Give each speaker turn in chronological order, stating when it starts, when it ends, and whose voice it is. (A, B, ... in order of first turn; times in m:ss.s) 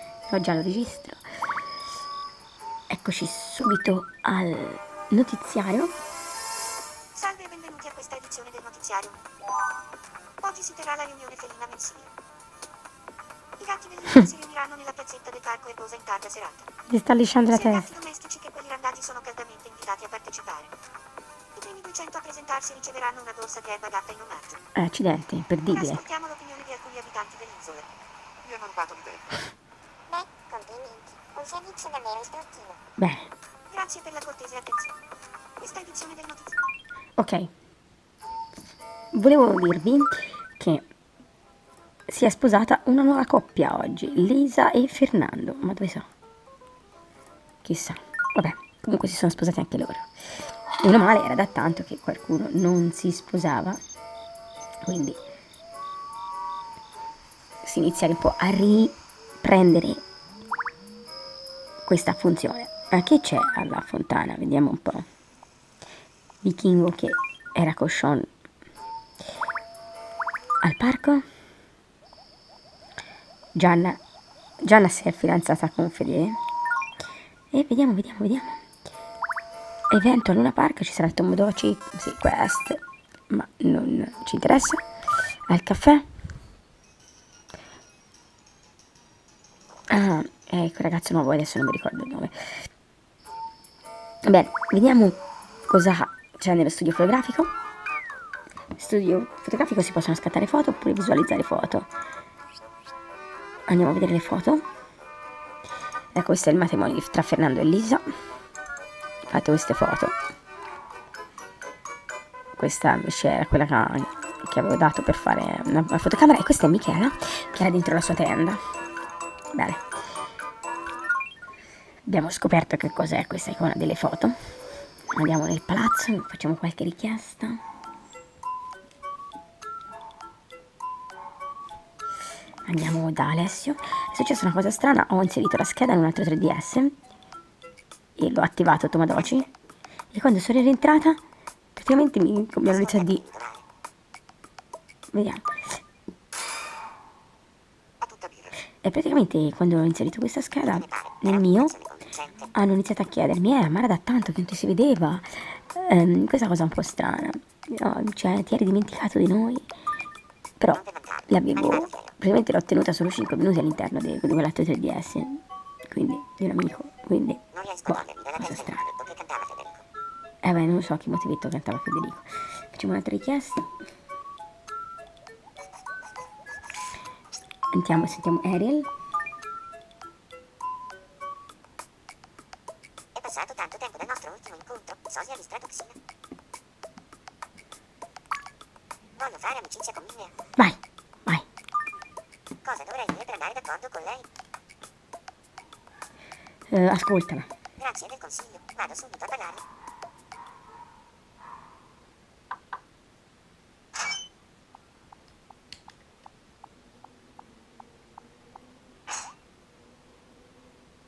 0:00.3-0:01.2 A
0:02.9-0:05.9 A
0:07.1-0:09.2 B
0:10.4-0:12.1 B
0:13.6-0:16.7 B
0:16.9-0:18.0 A
0:17.5-0:20.7 B
0:21.6-0:24.6 B
0:24.8-0:26.0 A
0:25.7-0:27.9 B
0:28.4-0:29.3 B
0:30.1-0:32.8 C
0:33.0-0:33.3 A
0:33.7-0:34.9 B
0:35.6-0:36.4 B
0:37.2-0:37.5 A
0:39.1-0:40.8 A
0:42.1-0:46.1 A
0:47.6-0:50.1 A
0:50.8-0:53.8 A
0:54.8-0:55.2 A
0:57.6-1:00.0 A
1:01.8-1:05.0 A
1:06.4-1:08.3 A
1:10.6-1:11.2 A
1:13.6-1:14.0 A
1:14.6-1:16.4 A
1:17.5-1:18.6 A
1:19.9-1:24.8 A
1:25.5-1:26.0 A
1:29.9-1:32.5 A
1:34.2-1:37.5 A
1:38.8-1:41.9 A
1:43.7-1:44.6 A
1:46.1-1:48.0 A
1:49.3-1:50.1 A
1:52.6-1:58.6 A
1:59.5-1:59.8 A
2:02.0-2:04.4 A
2:05.1-2:07.6 A
2:12.6-2:16.9 A
2:18.2-2:19.5 A
2:20.1-2:21.2 A
2:21.8-2:23.2 A
2:22.6-2:23.6 C
2:25.1-2:25.8 A
2:28.0-2:28.5 B
2:28.8-2:31.7 A
2:30.6-2:32.5 C
2:32.5-2:39.7 A
2:40.6-2:48.8 A
2:40.7-2:42.1 C
2:47.5-2:49.8 C
2:50.4-2:53.7 A
2:57.7-2:58.9 A
3:03.1-3:06.0 C
3:09.2-3:10.3 C
3:10.6-3:11.4 A
3:12.6-3:14.2 C
3:16.7-3:17.5 A
3:17.8-3:19.6 C